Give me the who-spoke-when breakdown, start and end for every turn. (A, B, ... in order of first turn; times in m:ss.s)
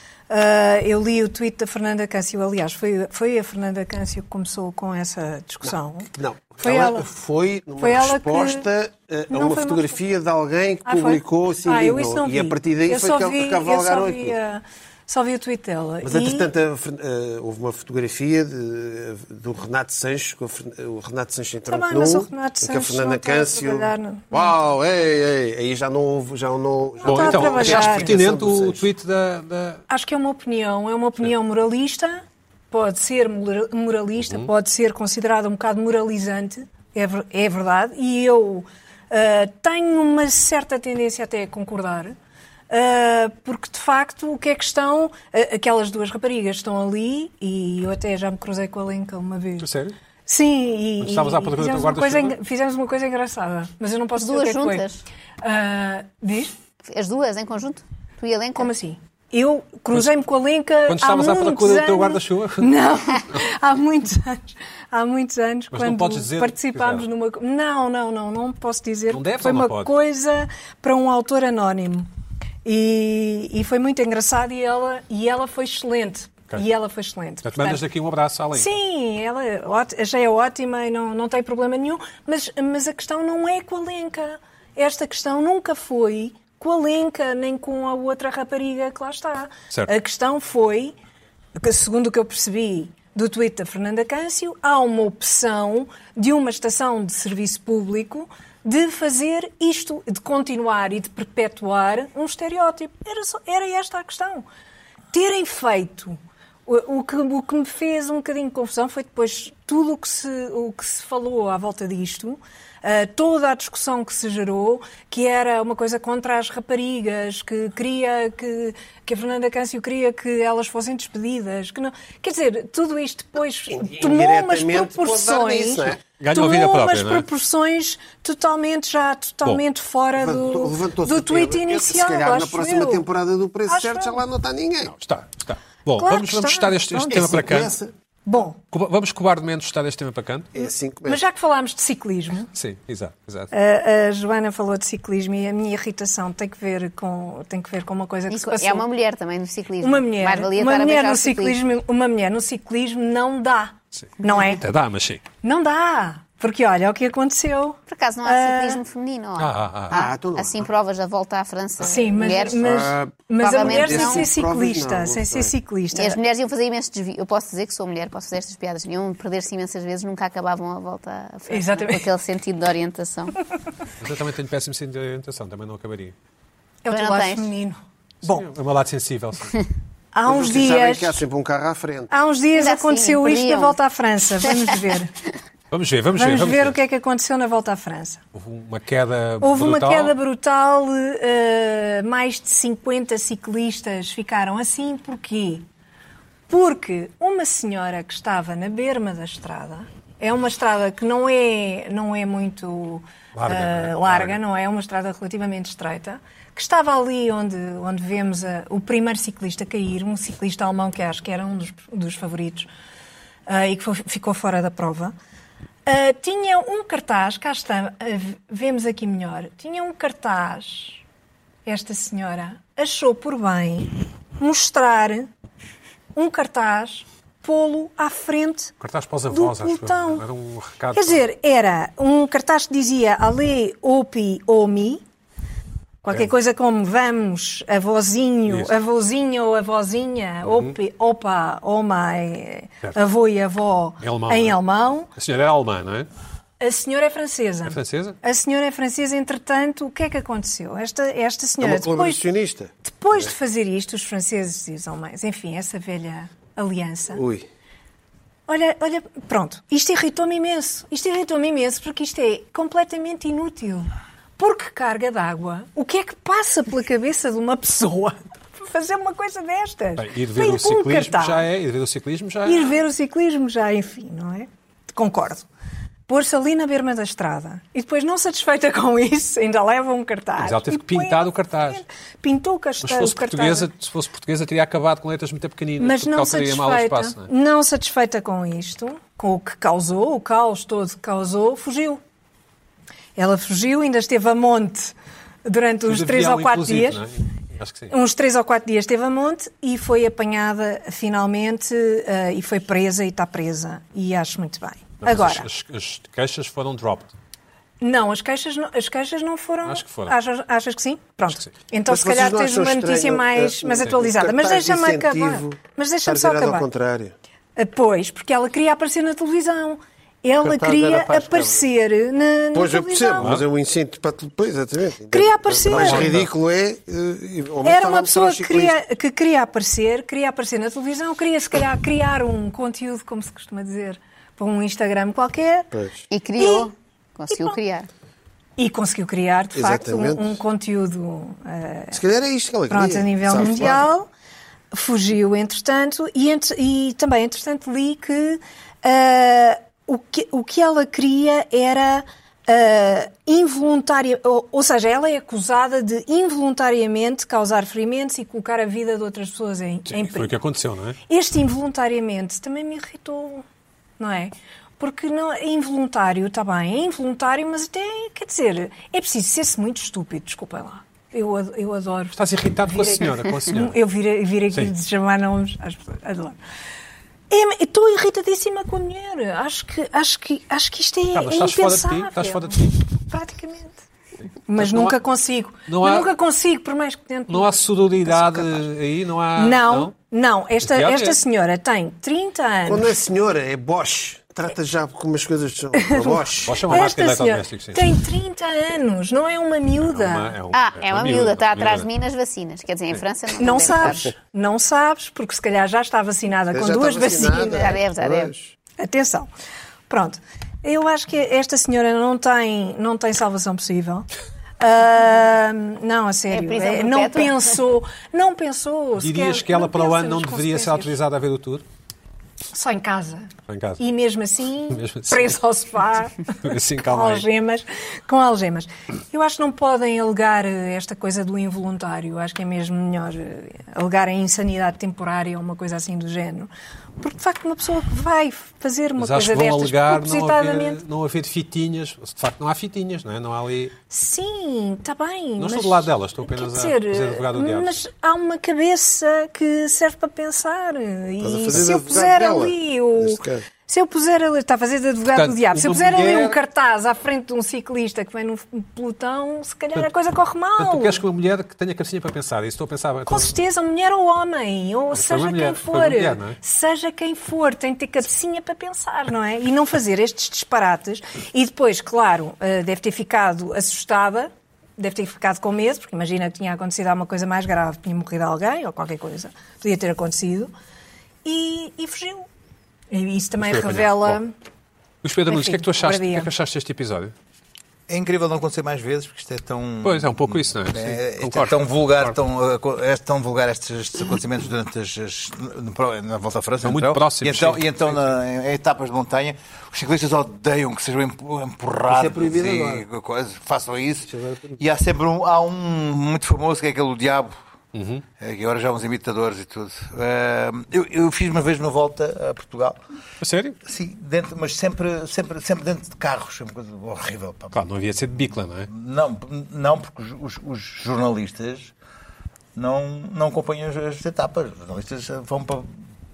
0:00.3-0:06.1 A
0:05.6-0:14.4 B
0:06.6-0:07.1 A
0:07.8-0:08.6 A
0:09.3-0:09.9 A
0:10.8-0:16.5 A
0:16.0-0:28.9 B
0:21.7-0:24.5 A
0:27.0-0:28.1 A
0:27.0-0:29.8 C
0:29.9-0:42.2 A
0:34.2-0:34.5 C
0:42.7-0:49.7 A
0:49.6-0:49.9 C
0:50.3-0:54.9 A
0:51.0-0:52.4 C
0:54.2-0:55.0 D
0:55.4-0:56.5 A
0:56.9-0:58.7 D
0:58.6-1:12.1 A
1:00.9-1:02.7 C
1:05.7-1:07.1 C
1:09.1-1:09.9 C
1:12.6-1:17.8 A
1:17.4-1:18.7 C
1:18.5-1:30.9 A
1:31.6-1:44.4 A
1:45.1-2:13.0 A
2:03.7-2:06.0 B
2:06.2-2:07.2 C
2:10.2-2:14.9 B
2:13.7-2:14.2 A
2:14.9-2:17.7 C
2:16.0-2:17.4 A
2:17.1-2:17.9 B
2:18.2-2:18.6 A
2:18.7-2:20.5 C
2:20.5-2:21.2 B
2:21.1-2:22.5 A
2:22.5-2:23.5 C
2:23.5-2:28.9 A
2:28.3-2:31.6 D
2:29.8-2:34.6 A
2:34.0-2:35.2 C
2:35.4-2:38.8 A
2:37.9-2:42.7 D
2:39.4-2:39.9 C
2:39.9-2:40.7 B
2:41.8-2:46.2 A
2:42.6-2:45.5 B
2:43.4-2:44.3 D
2:45.9-2:53.4 D
2:51.5-2:52.1 A
2:54.0-2:56.1 C
2:56.8-2:58.5 A
2:56.9-2:57.5 D
2:58.2-2:59.6 C
3:00.1-3:01.2 A
3:00.2-3:02.1 B
3:02.1-3:05.1 A
3:02.5-3:03.8 D
3:05.7-3:06.8 C
3:06.2-3:08.2 A
3:08.3-3:10.1 C
3:09.4-3:15.6 A
3:16.5-3:32.7 A
3:23.3-3:24.4 C
3:33.5-3:35.1 A
3:35.8-3:41.0 A
3:41.6-3:45.3 A
3:46.1-3:48.7 A
3:48.8-3:51.2 C
3:49.3-3:50.2 A
3:50.9-3:55.0 A
3:56.0-4:05.1 A
3:58.5-3:58.7 C
4:00.4-4:00.7 C
4:04.0-4:04.6 C
4:05.1-4:06.1 C
4:06.6-4:12.2 A
4:07.6-4:08.2 C
4:11.6-4:13.3 B
4:12.8-4:17.2 A
4:17.1-4:17.5 B
4:18.5-4:31.4 A
4:30.0-4:32.7 C
4:32.4-4:35.4 A
4:36.1-4:43.7 A
4:40.4-4:41.8 C
4:42.8-4:47.3 C
4:45.8-4:52.0 A
4:53.2-4:54.9 A
4:55.4-4:57.0 A
4:55.9-4:57.9 C
4:57.9-5:05.5 A
5:05.0-5:07.1 C
5:07.8-5:16.7 A
5:09.6-5:10.2 C
5:11.9-5:17.1 B
5:17.6-5:23.4 A
5:20.4-5:21.4 E
5:20.8-5:21.3 B
5:22.5-5:28.8 B
5:25.1-5:26.1 A
5:25.7-5:26.2 C
5:27.6-5:35.7 A
5:35.7-5:36.0 B
5:36.1-5:37.9 D
5:36.4-5:36.7 A
5:37.3-5:37.6 A
5:38.6-5:42.0 A
5:39.5-5:40.4 B
5:41.9-5:43.8 B
5:42.7-5:44.1 A
5:44.7-6:00.3 A
5:59.9-6:01.0 C
6:01.1-6:03.4 A
6:04.0-6:16.4 A
6:12.1-6:13.8 C
6:17.3-6:23.8 A
6:21.1-6:22.8 C
6:24.5-6:28.6 A
6:24.6-6:25.0 C
6:25.7-6:26.1 C
6:27.3-6:29.9 C
6:29.3-6:33.0 A
6:30.6-6:31.2 C
6:32.6-6:36.9 B
6:35.8-6:40.4 A
6:36.4-6:37.9 C
6:39.9-6:41.9 C
6:40.5-6:44.1 D
6:43.4-6:47.8 A
6:46.5-6:48.5 B
6:47.4-6:48.3 D
6:48.8-6:49.3 A
6:49.9-6:54.1 A
6:54.6-7:00.9 A
6:56.3-6:57.5 D
6:59.0-7:01.6 C
7:02.5-7:20.8 A
7:03.5-7:03.8 C
7:04.7-7:05.4 C
7:06.4-7:07.2 C
7:19.0-7:23.7 C
7:23.9-7:41.0 A
7:25.4-7:27.8 C
7:31.2-7:33.4 B
7:35.1-7:36.4 C
7:40.6-7:43.3 C
7:43.1-8:00.5 A
7:44.9-7:46.4 C
8:01.2-8:02.3 A
8:02.9-8:04.3 A
8:03.4-8:04.2 C
8:05.0-8:07.1 C
8:05.3-8:06.3 A
8:07.9-8:27.4 E
8:09.8-8:12.2 C
8:16.6-8:18.1 C
8:21.9-8:22.8 B
8:24.1-8:24.6 B
8:27.7-8:28.0 C
8:28.2-8:32.8 E
8:33.2-8:33.6 C
8:33.6-8:37.6 E
8:37.5-8:38.7 C
8:38.7-8:41.7 E
8:42.6-8:45.7 E